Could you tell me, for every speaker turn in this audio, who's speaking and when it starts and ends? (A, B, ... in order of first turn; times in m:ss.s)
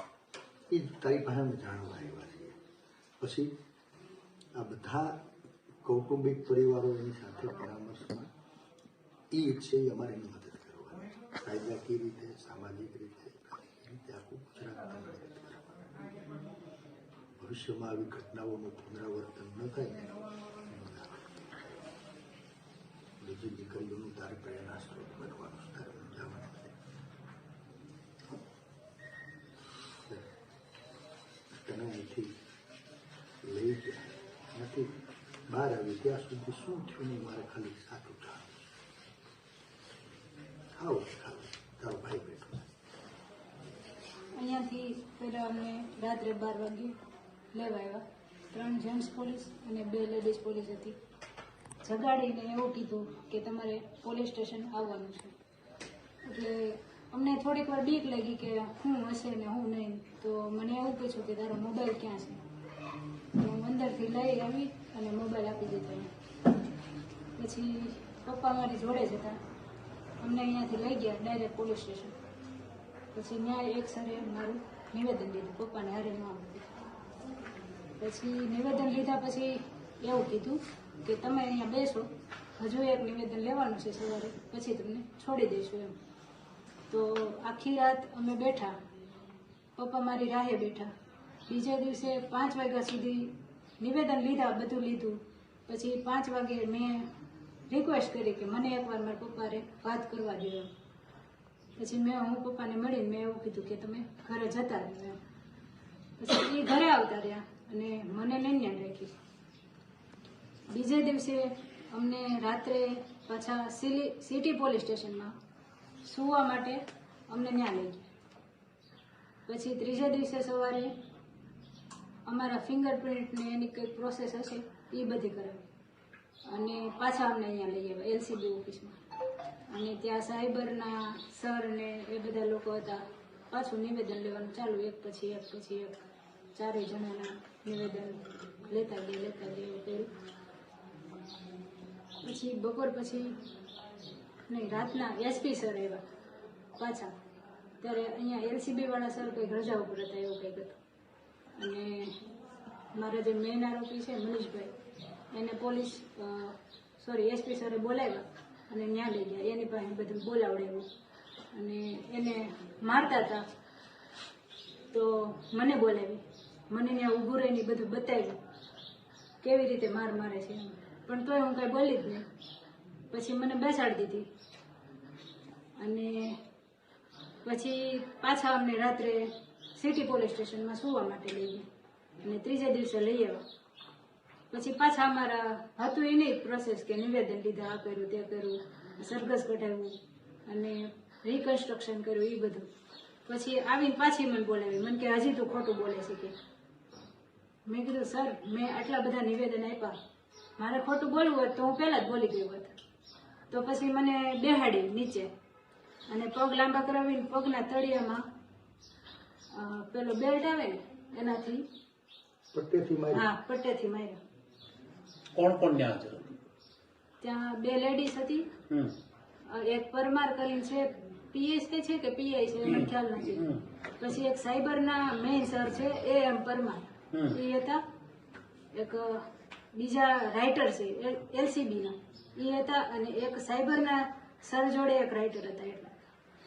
0:00.7-0:02.6 A
0:03.2-0:03.5 A
0:04.5-0:05.2 A
0:05.8-0:08.3 A
0:09.3-0:15.8 A
0:17.4-0:21.3 A
0:23.2-0:26.7 A
0:31.5-0:32.4 A
0:33.4-0:34.9 A
0:35.5-0:38.6 A
0:40.7-0:42.6 A
0:44.3-0:47.0 B
0:47.5-0:51.0 B
0:51.8-0:55.4 B
0:56.2-1:02.4 B
1:03.3-1:06.1 B
1:07.4-1:09.4 B
1:10.2-1:12.2 B
1:13.1-1:16.7 B
1:18.0-1:25.9 B
1:26.9-1:28.8 B
1:29.8-1:30.9 B
1:31.5-1:37.1 B
1:37.7-1:40.7 B
1:41.8-1:45.2 B
1:46.2-1:49.1 B
1:50.7-1:55.3 B
1:56.0-1:58.0 B
1:59.5-2:00.9 B
2:02.2-2:05.6 B
2:06.4-2:09.0 B
2:09.7-2:16.0 B
2:16.5-2:20.1 B
2:22.2-2:23.4 B
2:24.5-2:26.0 B
2:26.8-2:27.1 B
2:27.8-2:30.8 B
2:31.6-2:32.2 B
2:32.9-2:34.7 B
2:35.3-2:40.9 B
2:41.5-2:43.4 B
2:44.9-2:48.4 B
2:49.4-2:52.2 B
2:53.1-2:54.3 B
2:55.8-2:56.4 B
2:57.4-3:01.6 B
3:02.2-3:03.4 B
3:04.5-3:12.7 B
3:13.2-3:16.3 B
3:17.6-3:20.0 B
3:20.6-3:22.7 B
3:23.5-3:25.3 B
3:26.1-3:28.2 B
3:29.5-3:31.7 B
3:32.5-3:33.2 A
3:33.1-3:34.2 B
3:35.3-3:36.4 C
3:37.2-3:38.5 B
3:39.5-3:43.4 B
3:42.6-3:43.6 C
3:44.0-3:47.8 B
3:47.1-3:47.4 C
3:48.7-3:55.9 B